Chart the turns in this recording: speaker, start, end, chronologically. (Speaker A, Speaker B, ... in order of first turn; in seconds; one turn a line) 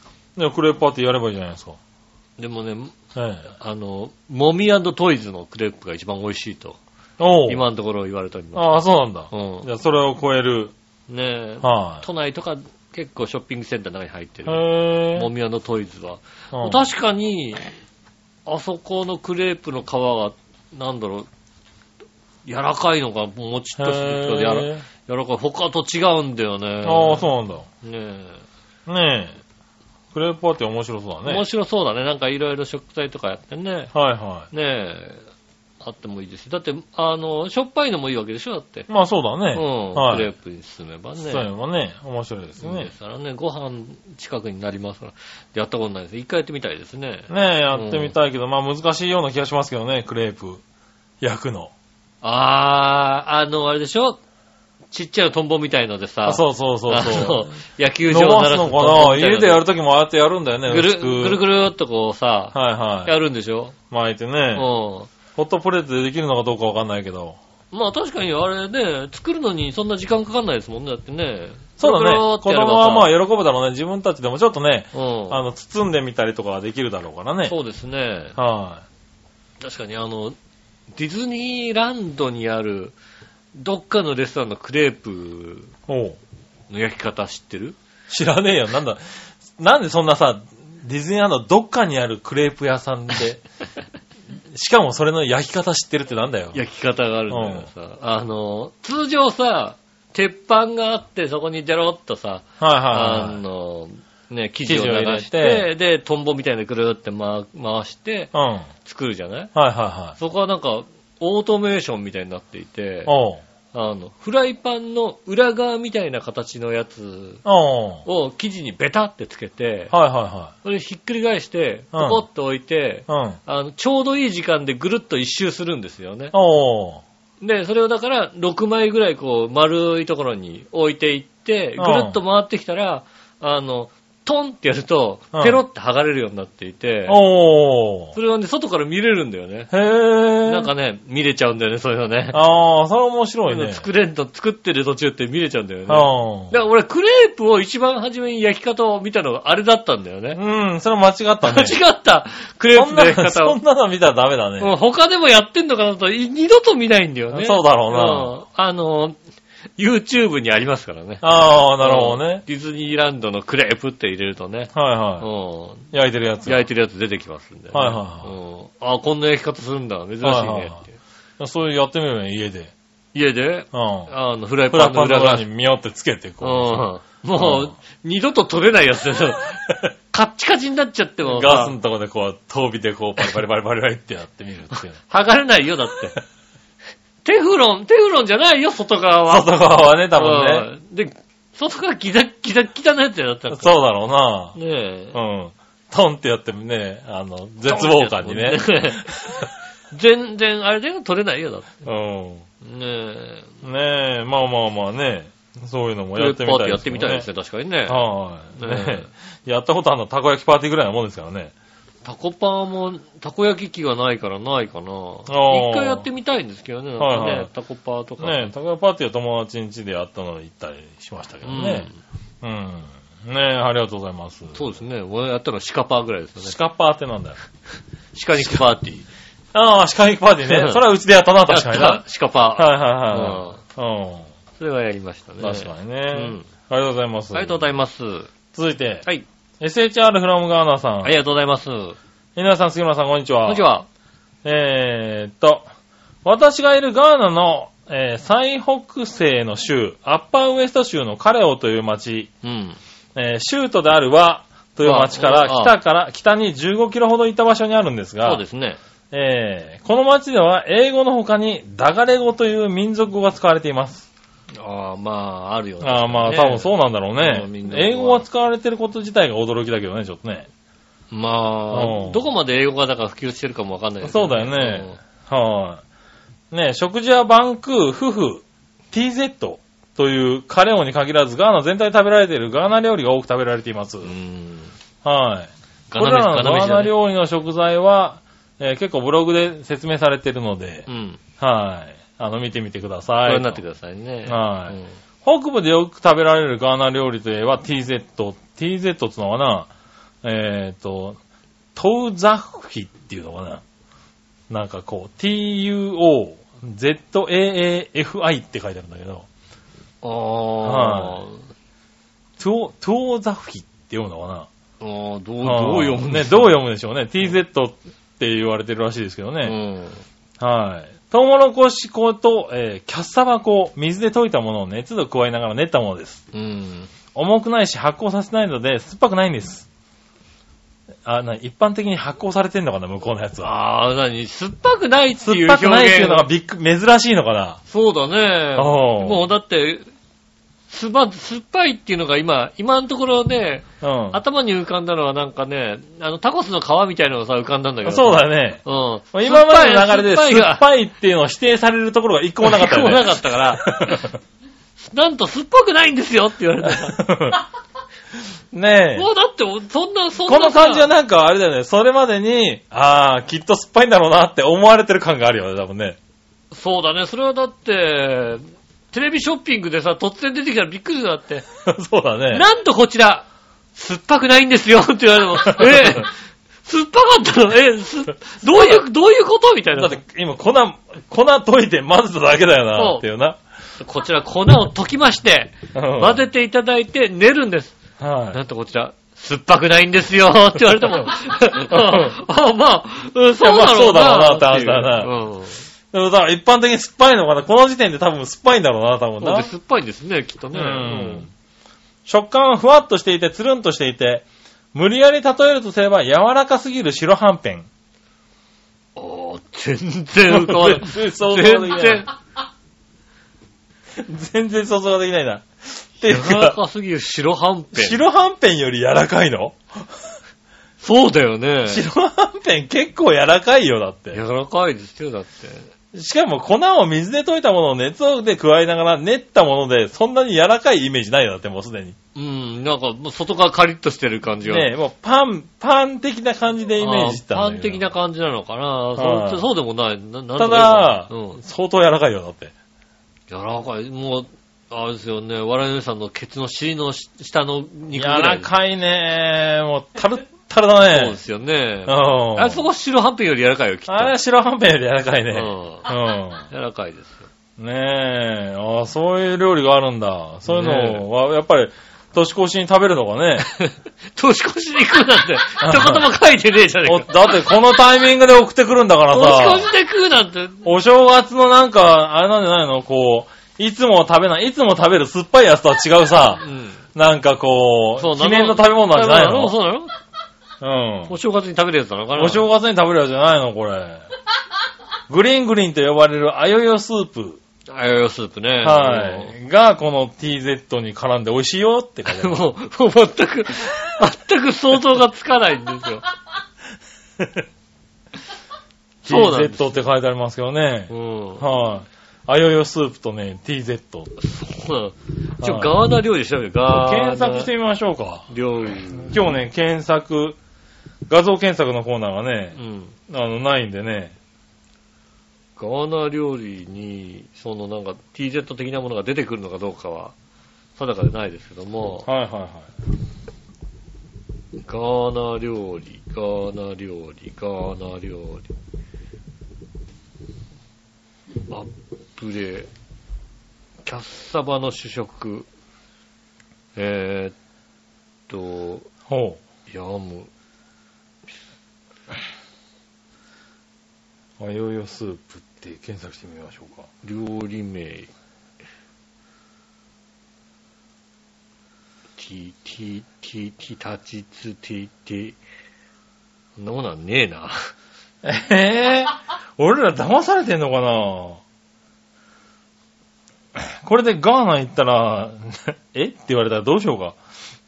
Speaker A: 0.3-1.8
Speaker B: 2.4-3.0
Speaker A: 3.1-3.5
Speaker B: 3.5-6.8
Speaker A: 7.2-7.6
Speaker B: 7.5-9.7
Speaker A: 8.5-10.7
Speaker B: 11.1-17.7
Speaker A: 11.6-12.0
Speaker A: 14.4-15.3
Speaker A: 16.5-16.8
Speaker B: 18.4-21.3
Speaker B: 22.4-27.3
Speaker A: 23.8-24.8
Speaker A: 26.8-27.6
Speaker B: 27.8-28.4
Speaker A: 28.9-29.4
Speaker A: 30.1-31.4
Speaker B: 31.2-33.9
Speaker A: 33.9-34.5
Speaker B: 34.5-35.2
Speaker B: 35.8-38.9
Speaker A: 38.9-40.3
Speaker B: 39.5-41.5
Speaker A: 41.2-42.9
Speaker B: 42.6-48.1
Speaker A: 47.3-50.6
Speaker A: 51.2-51.7
Speaker B: 52.2-54.2
Speaker B: 54.9-59.6
Speaker A: 56.2-57.5
Speaker A: 58.1-61.4
Speaker B: 60.7-63.8
Speaker A: 62.5-63.1
Speaker A: 63.9-64.7
Speaker B: 64.5-65.1
Speaker A: 65.3-67.4
Speaker B: 67.7-73.1
Speaker A: 71.8-77.5
Speaker B: 74.9-75.4
Speaker B: 77.5-78.3
Speaker A: 78.3-78.8
Speaker B: 79.6-80.3
Speaker B: 80.9-83.0
Speaker B: 83.5-85.7
Speaker A: 85.9-86.2
Speaker B: 86.7-87.8
Speaker A: 88.1-89.0
Speaker A: 89.6-93.4
Speaker A: 94.5-96.6
Speaker B: 96.5-108.3
Speaker A: 97.3-97.7
Speaker A: 102.6-103.4
Speaker A: 104.7-105.7
Speaker A: 108.3-108.7
Speaker B: 108.8-109.5
Speaker A: 109.5-110.2
Speaker B: 110.2-113.1
Speaker A: 113.0-113.4
Speaker B: 113.7-117.4
Speaker A: 117.4-118.0
Speaker B: 118.0-119.9
Speaker A: 119.9-120.5
Speaker B: 120.6-126.3
Speaker A: 121.9-122.2
Speaker A: 123.1-123.4
Speaker A: 126.3-127.0
Speaker B: 127.4-137.2
Speaker A: 131.8-132.2
Speaker A: 135.3-135.6
Speaker A: 137.1-138.1
Speaker B: 138.1-139.7
Speaker A: 139.7-140.7
Speaker B: 140.4-142.4
Speaker A: 142.3-143.8
Speaker B: 143.5-150.4
Speaker A: 145.9-146.5
Speaker A: 150.3-151.8
Speaker B: 151.4-153.6
Speaker A: 152.7-154.7
Speaker B: 154.6-159.2
Speaker A: 157.3-158.3
Speaker B: 159.8-165.9
Speaker A: 161.2-162.4
Speaker A: 164.7-165.3
Speaker A: 165.9-166.6
Speaker B: 166.4-170.9
Speaker A: 167.7-168.3
Speaker A: 170.2-170.8
Speaker A: 171.4-172.7
Speaker B: 173.1-175.5
Speaker A: 173.7-174.1
Speaker A: 174.7-177.7
Speaker B: 176.4-181.7
Speaker A: 181.2-185.0
Speaker B: 185.0-186.2
Speaker B: 187.2-189.5
Speaker A: 189.3-190.7
Speaker B: 190.1-193.7
Speaker A: 193.5-194.6
Speaker B: 194.6-195.2
Speaker A: 195.1-199.5
Speaker B: 197.7-199.2
Speaker B: 199.9-201.8
Speaker A: 201.8-202.4
Speaker B: 202.6-203.5
Speaker A: 203.6-207.2
Speaker B: 206.2-209.1
Speaker A: 207.9-211.5
Speaker B: 212.0-218.5
Speaker A: 215.3-216.1
Speaker A: 217.0-217.5
Speaker A: 218.2-221.9
Speaker B: 221.4-221.9
Speaker A: 222.4-224.7
Speaker B: 224.5-226.6
Speaker A: 226.4-227.4
Speaker B: 228.1-229.1
Speaker A: 229.5-232.0
Speaker B: 230.4-230.8
Speaker B: 231.4-233.6
Speaker A: 232.5-234.3
Speaker B: 234.6-236.5
Speaker A: 235.4-237.7
Speaker B: 237.3-238.3
Speaker A: 238.5-239.0
Speaker A: 239.6-241.1
Speaker B: 241.0-242.0
Speaker A: 242.3-243.7
Speaker B: 243.4-243.9
Speaker A: 244.4-245.7
Speaker A: 246.2-252.3
Speaker B: 252.4-252.8
Speaker A: 253.1-258.4
Speaker B: 254.8-255.7
Speaker B: 258.2-258.8
Speaker A: 259.1-264.1
Speaker B: 264.6-268.2
Speaker A: 265.8-270.5
Speaker B: 271.1-275.0
Speaker A: 271.7-272.2
Speaker A: 274.0-275.8
Speaker A: 276.5-284.1
Speaker B: 284.0-284.7
Speaker A: 285.0-290.9
Speaker B: 285.9-286.9
Speaker B: 290.9-291.2
Speaker A: 291.4-293.6
Speaker B: 293.2-294.9
Speaker A: 294.2-299.7
Speaker A: 300.2-301.2
Speaker A: 301.7-303.6
Speaker A: 304.5-309.3
Speaker B: 310.0-311.4
Speaker A: 310.6-311.2
Speaker A: 312.4-314.5
Speaker B: 314.8-316.5
Speaker A: 315.4-319.6
Speaker B: 319.4-320.0
Speaker A: 320.4-326.2
Speaker B: 326.3-326.9
Speaker A: 327.1-329.6
Speaker A: 331.0-333.5
Speaker B: 333.4-336.2
Speaker A: 335.2-337.6
Speaker B: 337.7-339.9
Speaker A: 338.6-339.3
Speaker B: 340.7-350.6
Speaker A: 343.8-344.2
Speaker A: 347.8-354.1
Speaker B: 352.4-354.1
Speaker B: 354.8-357.0
Speaker A: 356.6-357.4
Speaker A: 358.5-359.1
Speaker B: 358.9-360.9
Speaker A: 360.2-366.0
Speaker B: 366.5-371.4
Speaker A: 371.6-372.4
Speaker B: 372.3-376.1
Speaker A: 375.5-376.0
Speaker B: 376.6-380.0
Speaker A: 378.4-378.8
Speaker A: 379.7-383.4
Speaker B: 382.8-383.0
Speaker B: 383.8-387.8
Speaker A: 385.7-386.2
Speaker A: 388.0-388.4
Speaker B: 388.3-395.6
Speaker A: 391.7-392.1
Speaker A: 393.4-395.1
Speaker A: 395.9-399.5
Speaker B: 399.2-401.3
Speaker A: 400.5-401.3
Speaker A: 402.1-407.7
Speaker B: 408.9-412.1
Speaker A: 410.3-412.1
Speaker A: 414.0-416.6
Speaker B: 416.1-418.0
Speaker A: 417.7-419.9
Speaker B: 420.8-421.8
Speaker A: 421.6-424.2
Speaker B: 424.1-425.7
Speaker A: 425.9-431.9
Speaker B: 432.1-434.7
Speaker A: 434.4-437.8
Speaker B: 436.8-441.4
Speaker A: 439.0-439.4
Speaker A: 440.4-442.5
Speaker B: 443.3-448.5
Speaker A: 447.9-451.2
Speaker B: 450.9-454.1
Speaker A: 451.9-452.6
Speaker A: 453.9-456.5
Speaker B: 455.3-455.9
Speaker B: 456.5-457.2
Speaker A: 457.6-463.5
Speaker B: 460.4-461.0
Speaker B: 463.5-467.1
Speaker A: 465.6-466.1
Speaker A: 466.8-469.7
Speaker B: 469.1-470.6
Speaker A: 470.6-479.6
Speaker B: 476.4-476.8
Speaker B: 478.0-479.9
Speaker A: 480.6-481.1
Speaker B: 481.1-482.4
Speaker A: 482.1-484.0
Speaker A: 485.1-487.4
Speaker B: 487.7-489.3
Speaker A: 488.6-492.4
Speaker B: 492.1-496.0
Speaker B: 499.0-499.8
Speaker A: 499.0-504.1
Speaker B: 500.9-501.4
Speaker B: 504.2-507.5
Speaker A: 505.4-505.8
Speaker A: 506.7-510.4
Speaker B: 508.3-509.3
Speaker A: 511.1-512.6
Speaker B: 512.5-512.9
Speaker A: 513.1-514.1
Speaker B: 515.6-520.1
Speaker B: 520.8-522.1
Speaker A: 522.0-522.7
Speaker B: 524.6-528.5
Speaker B: 531.5-532.7
Speaker B: 533.8-535.5
Speaker B: 536.8-537.3
Speaker B: 538.3-538.9
Speaker A: 539.1-539.4
Speaker B: 539.7-540.3
Speaker A: 544.4-546.9
Speaker B: 547.0-548.1
Speaker B: 552.2-555.4
Speaker B: 556.6-557.7
Speaker A: 558.2-561.4
Speaker A: 563.5-567.2